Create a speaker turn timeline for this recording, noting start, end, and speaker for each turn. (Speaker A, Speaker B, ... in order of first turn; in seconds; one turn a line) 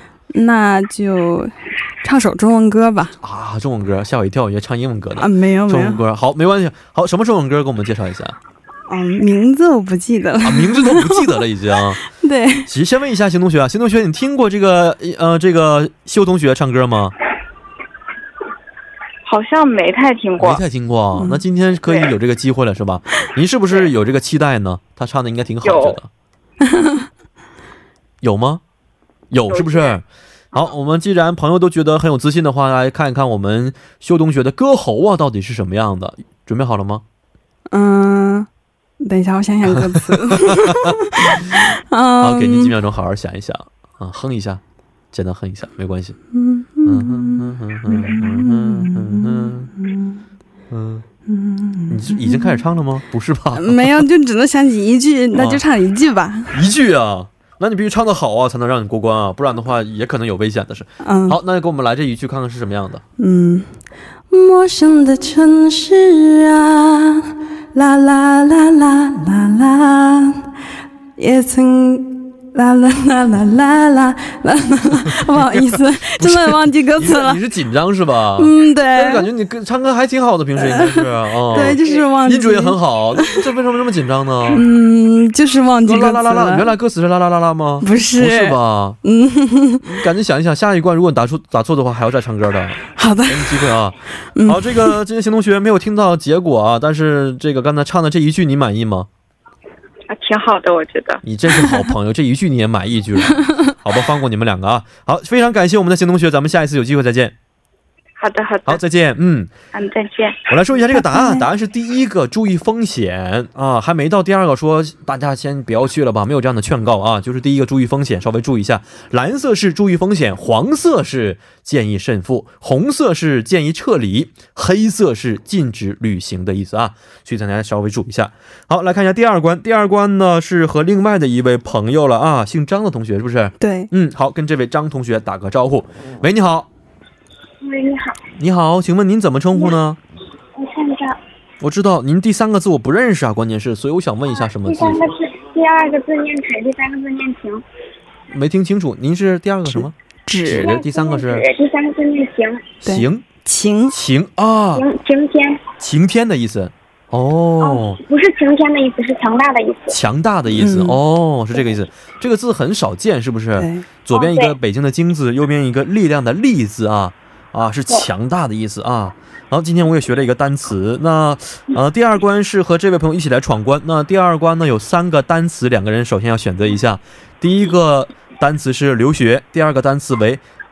Speaker A: 0.3-3.2
Speaker B: 3.2-8.4
Speaker A: 5.2-6.0
Speaker A: 8.9-11.4
Speaker B: 10.4-12.0
Speaker A: 12.0-12.7
Speaker B: 12.7-17.1
Speaker C: 19.2-20.6
Speaker B: 20.4-26.1
Speaker A: 21.1-21.4
Speaker C: 21.9-22.1
Speaker C: 25.6-26.0
Speaker A: 26.6-27.1
Speaker B: 28.2-28.6
Speaker B: 29.3-37.0
Speaker C: 29.5-29.9
Speaker A: 37.7-38.5
Speaker A: 39.0-42.7
Speaker B: 39.7-41.5
Speaker B: 42.2-44.6
Speaker B: 45.1-46.2
Speaker A: 46.3-50.2
Speaker B: 46.9-49.7
Speaker B: 50.7-51.1
Speaker A: 51.3-52.6
Speaker B: 51.9-54.1
Speaker A: 53.5-56.6
Speaker B: 55.4-55.6
Speaker B: 56.5-63.0
Speaker A: 61.0-61.4
Speaker A: 63.2-63.7
Speaker A: 64.3-70.5
Speaker A: 71.2-77.4
Speaker B: 76.2-84.7
Speaker A: 78.4-79.3
Speaker A: 80.6-83.4
Speaker C: 81.5-82.0
Speaker A: 84.5-86.7
Speaker B: 85.8-89.0
Speaker A: 87.8-90.0
Speaker B: 89.8-99.1
Speaker A: 93.0-95.0
Speaker C: 100.1-101.2
Speaker B: 101.2-107.3
Speaker A: 103.4-103.7
Speaker C: 108.2-108.8
Speaker B: 108.7-109.5
Speaker C: 109.7-110.5
Speaker B: 110.5-136.7
Speaker A: 110.9-111.5
Speaker A: 133.6-133.9
Speaker C: 137.6-138.2
Speaker B: 138.4-140.0
Speaker C: 140.6-141.2
Speaker B: 141.6-145.1
Speaker C: 144.6-147.6
Speaker B: 148.3-151.4
Speaker A: 150.3-150.7
Speaker C: 150.5-152.7
Speaker B: 152.8-153.2
Speaker A: 152.8-154.0
Speaker B: 153.9-154.9
Speaker C: 154.8-155.7
Speaker B: 155.8-158.0
Speaker C: 157.6-160.0
Speaker B: 159.9-180.4
Speaker A: 160.6-161.0
Speaker A: 163.6-163.8
Speaker C: 164.1-164.6